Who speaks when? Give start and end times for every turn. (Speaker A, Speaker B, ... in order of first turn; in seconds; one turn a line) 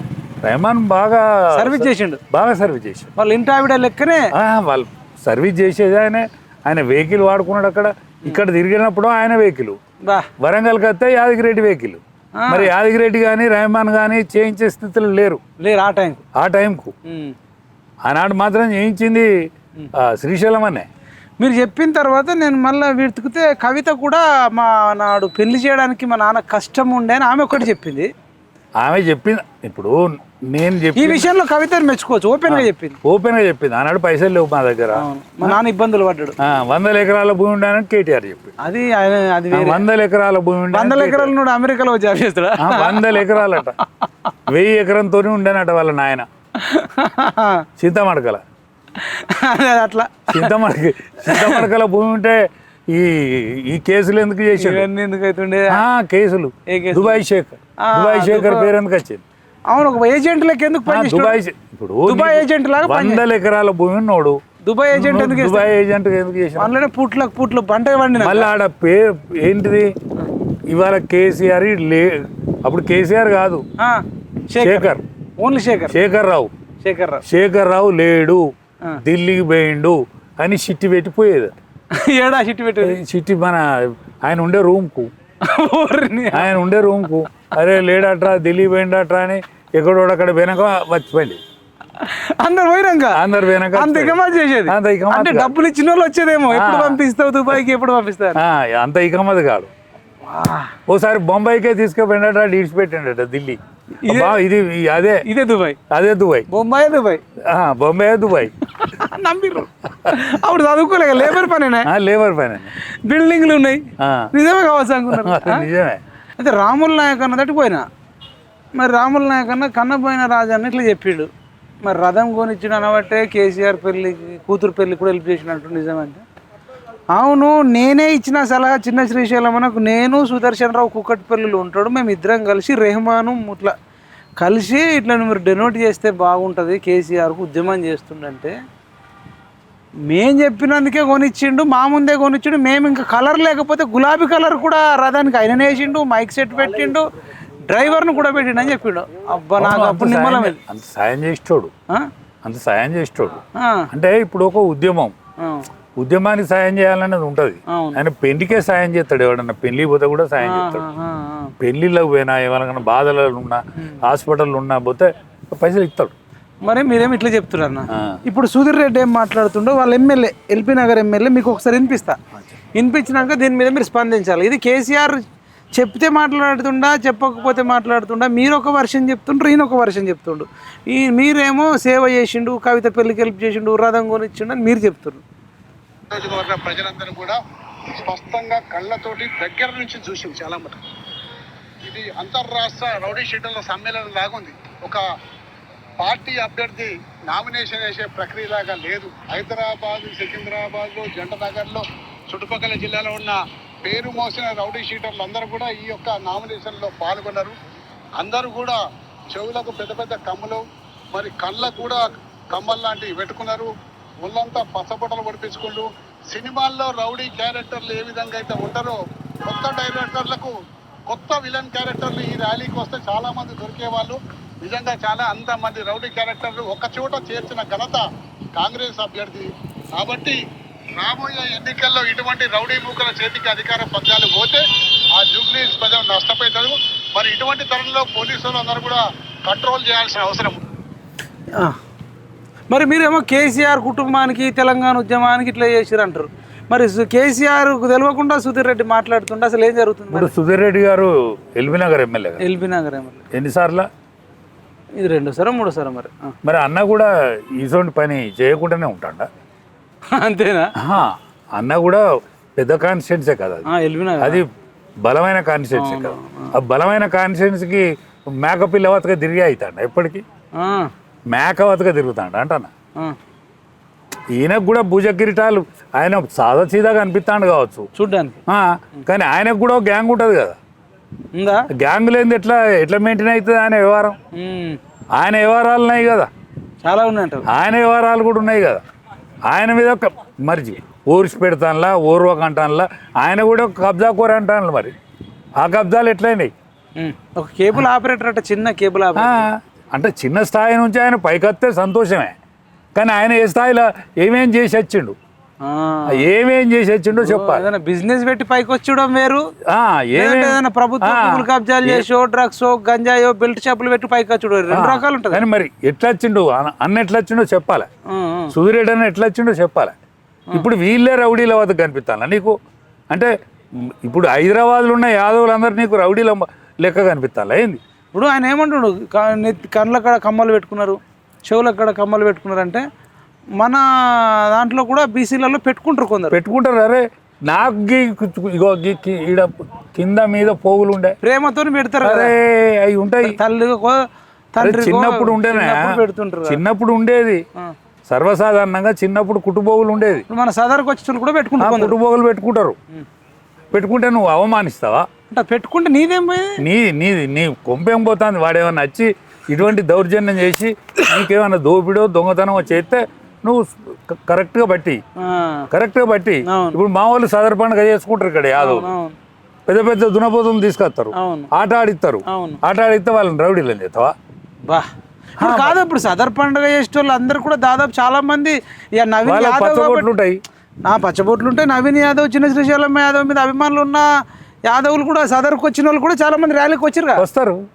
Speaker A: 0.4-3.1
Speaker B: 1.5-2.2
Speaker B: 3.1-4.3
Speaker A: 4.3-9.8
Speaker A: 10.4-15.4
Speaker B: 12.4-12.7
Speaker B: 15.6-16.2
Speaker A: 16.3-16.9
Speaker B: 17.1-17.3
Speaker A: 18.0-19.3
Speaker A: 19.9-20.9
Speaker B: 21.4-28.1
Speaker A: 28.8-31.3
Speaker B: 30.9-33.0
Speaker A: 32.5-35.6
Speaker B: 34.9-36.4
Speaker A: 36.4-38.5
Speaker B: 38.6-39.8
Speaker A: 39.5-41.3
Speaker B: 40.7-43.4
Speaker A: 42.6-43.8
Speaker A: 44.5-46.3
Speaker B: 46.6-47.6
Speaker A: 47.8-48.4
Speaker B: 49.0-50.5
Speaker A: 50.3-54.9
Speaker B: 51.2-51.7
Speaker B: 54.6-55.8
Speaker A: 55.7-59.2
Speaker B: 56.7-57.2
Speaker B: 57.8-58.7
Speaker B: 59.7-61.4
Speaker A: 60.9-64.4
Speaker B: 62.0-63.2
Speaker B: 64.6-65.7
Speaker A: 64.9-66.7
Speaker B: 66.6-68.5
Speaker A: 68.2-70.0
Speaker A: 70.7-73.6
Speaker B: 73.8-76.0
Speaker A: 74.6-75.0
Speaker A: 75.9-76.5
Speaker B: 76.8-77.2
Speaker A: 77.2-78.5
Speaker A: 79.0-81.5
Speaker B: 81.9-83.0
Speaker A: 82.8-85.1
Speaker B: 85.4-86.5
Speaker A: 86.3-91.4
Speaker B: 92.0-93.2
Speaker A: 93.1-95.5
Speaker B: 93.7-98.4
Speaker A: 96.5-97.0
Speaker A: 98.3-99.7
Speaker B: 100.2-100.7
Speaker A: 100.9-105.2
Speaker B: 103.9-104.4
Speaker B: 105.2-105.8
Speaker A: 105.9-106.5
Speaker B: 106.5-107.2
Speaker A: 107.5-108.5
Speaker B: 108.7-111.9
Speaker A: 111.8-112.7
Speaker B: 113.0-115.7
Speaker A: 114.0-114.3
Speaker A: 115.1-116.0
Speaker B: 116.4-117.8
Speaker B: 118.8-121.3
Speaker B: 121.8-126.2
Speaker B: 127.1-133.7
Speaker B: 134.4-138.6
Speaker B: 140.1-147.0
Speaker B: 147.7-150.6
Speaker A: 149.6-151.7
Speaker A: 152.4-155.1
Speaker B: 153.5-153.9
Speaker B: 155.4-155.7
Speaker A: 156.0-160.9
Speaker B: 157.7-158.0
Speaker B: 160.4-161.5
Speaker A: 161.6-166.1
Speaker B: 166.6-172.2
Speaker A: 167.9-168.2
Speaker B: 172.7-185.2
Speaker C: 186.1-187.4
Speaker C: 187.9-190.8
Speaker C: 191.8-195.0
Speaker C: 196.0-207.5
Speaker C: 208.2-213.7
Speaker C: 214.2-220.5
Speaker C: 221.1-230.4
Speaker C: 231.0-240.6
Speaker B: 242.7-250.3
Speaker A: 250.1-252.4
Speaker B: 252.4-253.2
Speaker A: 253.3-253.9
Speaker B: 255.0-256.3
Speaker A: 256.4-259.3
Speaker B: 260.1-260.7
Speaker A: 260.8-263.6
Speaker B: 263.6-264.4
Speaker A: 264.2-264.5
Speaker A: 265.0-270.2
Speaker B: 265.7-266.6
Speaker B: 270.6-270.9
Speaker A: 271.3-272.7
Speaker A: 274.3-277.9
Speaker B: 277.9-278.4
Speaker A: 278.5-280.6
Speaker B: 281.3-281.6
Speaker A: 281.7-284.2
Speaker B: 284.3-284.8
Speaker A: 285.1-286.3
Speaker B: 286.8-287.4
Speaker A: 287.5-288.8
Speaker A: 289.5-294.9
Speaker A: 295.6-296.5
Speaker B: 297.0-299.5
Speaker A: 299.1-302.3
Speaker A: 302.9-305.1
Speaker B: 305.6-306.2
Speaker A: 306.1-307.6
Speaker B: 307.2-309.4
Speaker A: 309.7-312.1
Speaker B: 310.1-315.4
Speaker A: 314.7-317.9
Speaker B: 318.1-318.5
Speaker A: 318.5-319.9
Speaker A: 320.5-322.6
Speaker A: 323.1-327.8
Speaker B: 328.1-332.8
Speaker B: 333.6-336.4
Speaker A: 336.3-341.1
Speaker B: 341.2-342.3
Speaker A: 342.0-343.4
Speaker B: 343.2-344.0
Speaker B: 344.5-346.6
Speaker A: 344.6-347.4
Speaker A: 348.1-350.2
Speaker B: 350.3-351.9
Speaker A: 351.6-352.8
Speaker A: 353.7-355.1
Speaker B: 355.3-356.6
Speaker A: 356.6-365.0
Speaker B: 365.2-365.7
Speaker A: 365.7-368.9
Speaker B: 366.4-366.8
Speaker B: 368.6-369.1
Speaker A: 369.7-374.1
Speaker B: 371.1-371.5
Speaker B: 372.2-372.6
Speaker B: 374.7-380.1
Speaker A: 375.4-375.8
Speaker A: 379.2-380.4
Speaker B: 380.8-384.1
Speaker B: 384.7-387.2
Speaker A: 387.2-387.7